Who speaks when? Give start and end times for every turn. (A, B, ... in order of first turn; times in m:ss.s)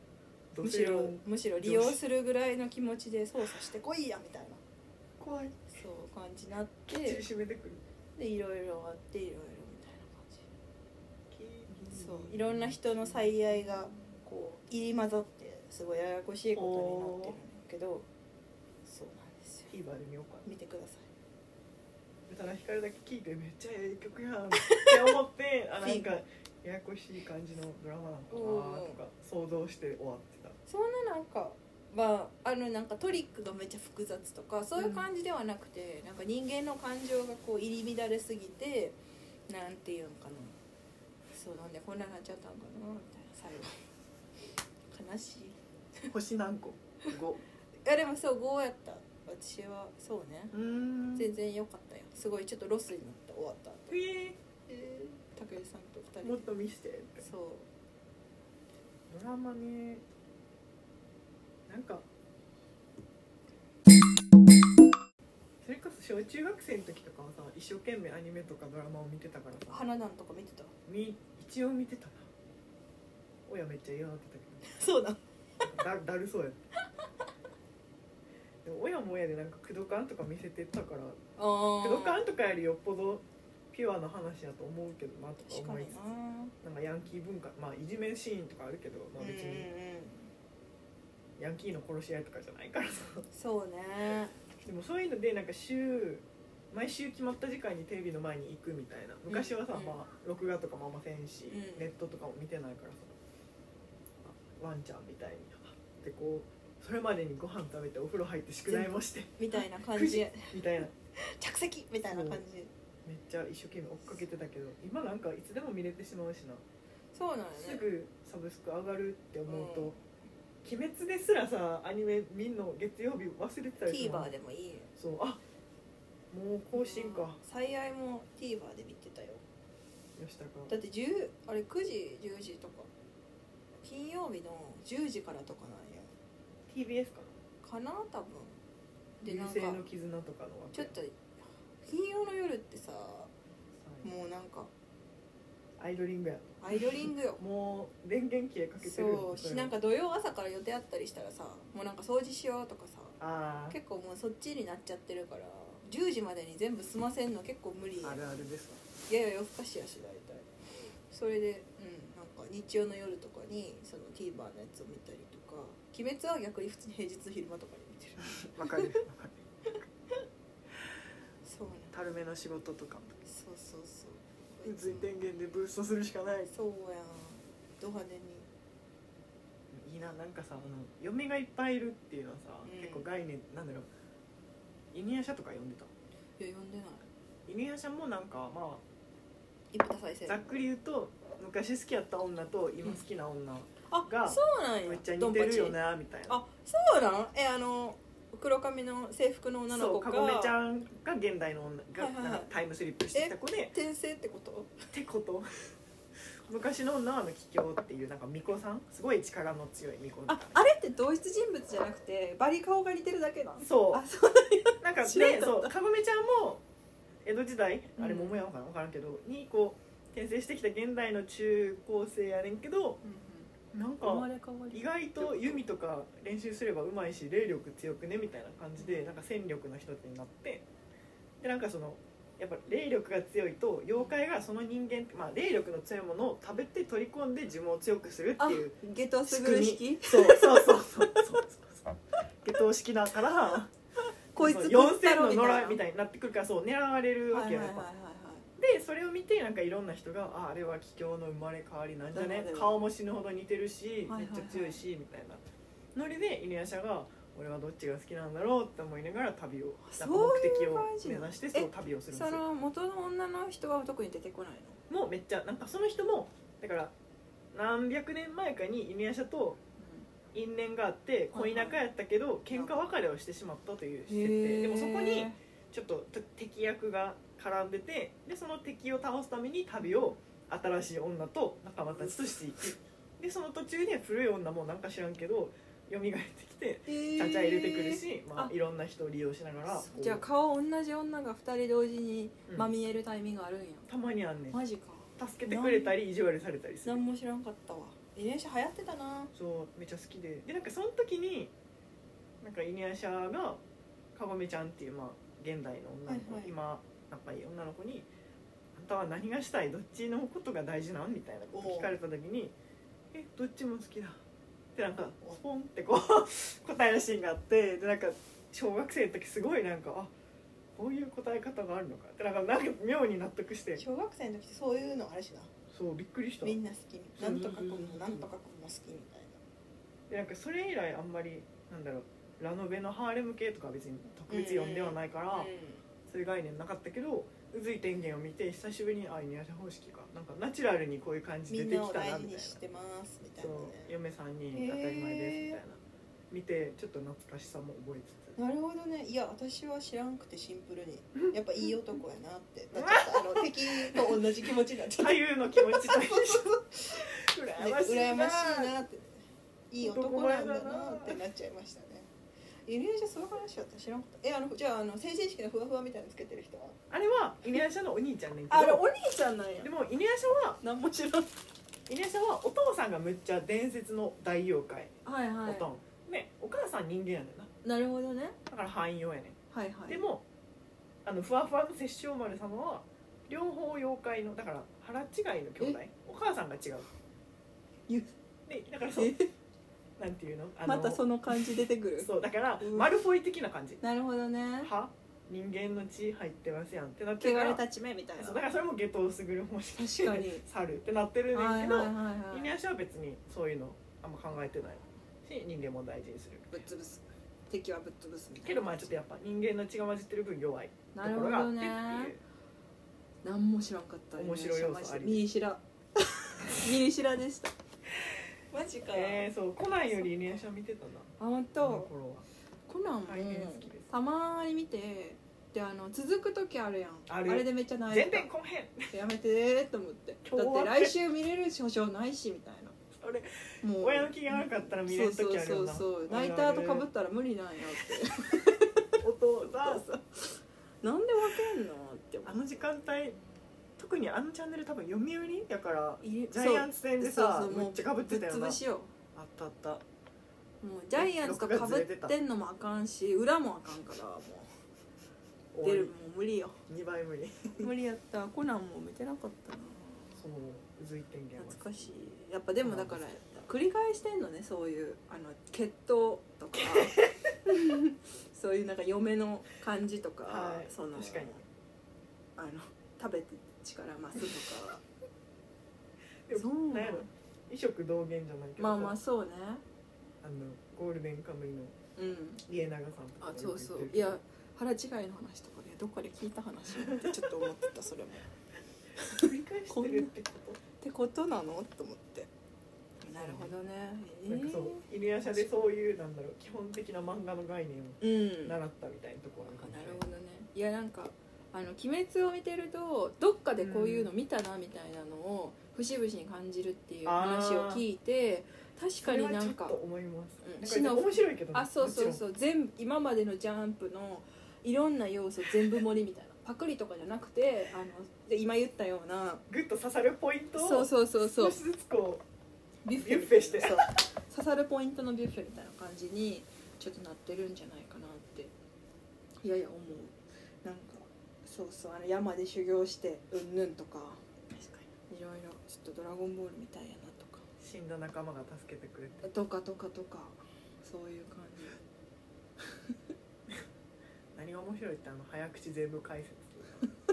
0:00.5-0:02.0 A
0:00.6-0:04.6 B
0:05.2-0:05.7 A
0:05.7-0:07.2 B
0:06.9-0:07.8 A
0:08.2-0:10.4 B
0:11.3-0:14.0 A
0:11.9-0:18.1 B
0:16.5-0:17.4 A
0:18.9-0:19.7 B
0:19.7-0:20.5 A
0:20.4-0:21.1 B
0:22.3-0:30.6 A
0:24.6-0:25.2 B
0:25.8-0:26.1 B
0:28.3-0:29.0 B
0:30.7-0:40.6 B
0:34.8-0:35.1 A
0:41.3-0:43.8 B
0:44.9-0:46.1 B
0:46.1-0:47.4 A
0:47.8-0:50.5 B
0:50.5-0:51.3 A
0:51.1-0:54.0 B
0:53.9-0:54.4 A
0:54.7-0:56.5 B
0:56.2-0:57.3 A
0:57.2-0:57.7 B
0:59.1-1:00.0 A
1:01.7-1:02.0 A
1:05.6-1:09.8 A
1:09.7-1:10.7 B
1:10.9-1:12.3 A
1:13.5-1:14.8 A
1:14.6-1:15.2 B
1:15.6-1:16.6 A
1:18.6-1:21.2 A
1:21.4-1:22.2 B
1:21.8-1:26.0 A
1:25.4-1:26.5 B
1:26.6-1:29.7 A
1:29.2-1:30.3 B
1:31.4-1:33.2 A
1:33.3-1:34.4 B
1:34.6-1:43.2 A
1:39.3-1:40.0 B
1:41.5-1:41.9 B
1:44.2-1:50.9 A
1:48.7-1:52.7 B
1:52.1-1:52.4 A
1:53.0-1:56.6 A
1:57.1-1:57.9 B
1:57.5-1:59.9 A
1:59.5-2:00.0 B
2:00.6-2:04.3 A
2:03.9-2:04.9 B
2:05.0-2:05.4 A
2:06.3-2:07.4 A
2:06.7-2:09.4 B
2:10.2-2:10.7 A
2:10.7-2:12.9 B
2:13.8-2:16.1 B
2:16.7-2:17.4 A
2:17.6-2:18.6 B
2:19.2-2:19.9 B
2:19.2-2:20.9 A
2:20.7-2:23.3 B
2:23.8-2:24.1 A
2:24.0-2:24.7 B
2:25.8-2:29.7 A
2:26.6-2:27.4 B
2:28.8-2:33.2 B
2:33.2-2:33.8 A
2:33.7-2:38.4 B
2:38.0-2:38.8 A
2:39.1-2:49.0 B
2:48.2-2:49.4 A
2:51.4-2:51.9 B
2:51.9-2:53.2 A
2:53.2-2:55.1 B
2:54.6-2:56.5 A
2:56.5-2:58.5 B
2:59.7-3:03.9 A
3:02.6-3:03.0 B
3:04.9-3:05.9 A
3:06.4-3:07.1 B
3:07.4-3:08.8 A
3:09.7-3:10.6 B
3:10.3-3:16.4 A
3:13.9-3:20.5 B
3:19.7-3:23.7 A
3:22.0-3:22.5 B
3:23.1-3:24.9 B
3:24.9-3:25.6 A
3:26.4-3:30.6 A
3:30.3-3:35.7 B
3:33.6-3:34.0 A
3:34.8-3:36.6 A
3:37.2-3:43.0 A
3:38.0-3:38.4 B
3:43.0-3:43.5 B
3:43.7-3:50.6 A
3:44.0-3:45.6 B
3:48.8-3:49.2 B
3:51.4-4:03.7 A
3:58.4-4:01.4 B
4:04.3-4:05.8 B
4:04.4-4:07.9 A
4:07.3-4:08.5 B
4:08.6-4:15.4 A
4:12.1-4:12.8 B
4:14.1-4:14.8 B
4:15.9-4:22.4 A
4:19.8-4:24.8 B
4:24.9-4:26.9 A
4:27.5-4:29.6 A
4:29.8-4:30.1 B
4:30.3-4:50.2 A
4:31.3-4:31.8 B
4:32.5-4:32.8 B
4:34.1-4:35.4 B
4:46.9-4:48.5 B
4:49.7-4:53.9 B
4:52.5-4:52.7 A
4:53.9-4:54.6 A
4:54.5-4:55.9 B
4:55.2-4:57.0 A
4:56.8-4:59.3 B
4:59.4-5:01.5 A
5:02.4-5:03.6 A
5:04.1-5:08.1 A
5:06.0-5:06.5 B
5:08.7-5:12.5 A
5:11.5-5:11.9 B
5:13.1-5:14.2 A
5:14.7-5:20.1 A
5:20.7-5:23.8 A
5:23.8-5:25.5 B
5:25.7-5:26.6 A
5:26.4-5:29.4 B
5:27.2-5:28.3 A
5:30.1-5:35.5 A
5:34.3-5:35.8 B
5:36.1-5:42.6 A
5:41.5-5:43.9 B
5:43.4-5:48.4 A
5:44.5-5:45.6 B
5:48.4-6:02.1 B
5:52.7-5:54.2 A
5:55.0-5:58.7 A
5:59.8-6:01.2 A
6:02.6-6:06.8 B
6:06.9-6:08.8 A
6:08.5-6:09.7 B
6:09.6-6:10.6 A
6:10.6-6:11.3 B
6:11.9-6:14.9 A
6:15.0-6:15.7 B
6:15.4-6:17.5 A
6:17.6-6:18.4 B
6:18.5-6:19.4 A
6:19.5-6:20.0 B
6:19.9-6:20.2 A
6:21.0-6:26.9 A
6:28.5-6:29.2 A
6:28.9-6:29.3 B
6:30.0-6:31.4 A
6:30.6-6:32.9 B
6:32.0-6:33.8 A
6:33.8-6:34.7 B
6:34.6-6:37.6 A
6:37.2-6:38.4 B
6:38.2-6:46.6 A
6:39.7-6:40.4 B
6:41.3-6:42.5 B
6:46.5-6:48.8 B
6:48.4-6:52.2 A
6:50.9-6:52.1 B
6:53.2-6:57.5 B
6:54.2-6:55.2 A
6:58.5-6:59.3 B
6:58.9-7:02.2 A
7:01.2-7:01.9 B
7:02.7-7:08.3 B
7:03.0-7:03.9 A
7:07.1-7:09.0 A
7:08.9-7:12.8 B
7:10.2-7:10.9 A
7:12.9-7:16.9 A
7:13.6-7:18.9 B
7:19.0-7:19.8 A
7:19.4-7:22.4 B
7:22.2-7:23.2 A
7:23.8-7:28.6 A
7:26.0-7:28.9 B
7:29.1-7:29.8 A
7:30.6-7:34.5 B
7:31.0-7:32.2 A
7:35.5-7:35.9 A
7:35.6-7:36.6 B
7:36.7-7:37.7 A
7:37.6-7:40.2 B
7:40.2-7:41.9 A
7:41.4-7:51.4 B
7:42.6-7:43.0 A
7:46.6-7:47.3 A
7:50.2-7:51.4 A
7:52.4-7:54.8 B
7:56.2-7:59.0 A
7:56.3-7:57.1 B
7:58.6-7:59.6 B
8:00.2-8:01.8 A
8:02.0-8:02.4 B
8:02.4-8:04.2 A
8:03.2-8:08.3 B
8:06.8-8:07.4 A
8:09.0-8:10.1 B
8:09.1-8:10.6 A
8:10.8-8:12.3 B
8:13.0-8:15.6 B
8:13.1-8:13.6 A
8:14.3-8:20.0 A
8:18.0-8:18.6 B
8:19.5-8:29.8 B
8:23.6-8:24.1 A
8:27.0-8:27.8 A
8:29.0-8:32.2 A
8:30.4-8:39.4 B
8:39.5-8:42.2 A
8:40.5-8:41.6 B
8:42.8-8:48.5 B
8:42.9-8:43.9 A
8:49.4-8:57.4 B
8:57.6-8:59.3 A
8:59.2-9:01.8 B
9:02.7-9:03.0 B
9:04.3-9:06.8 A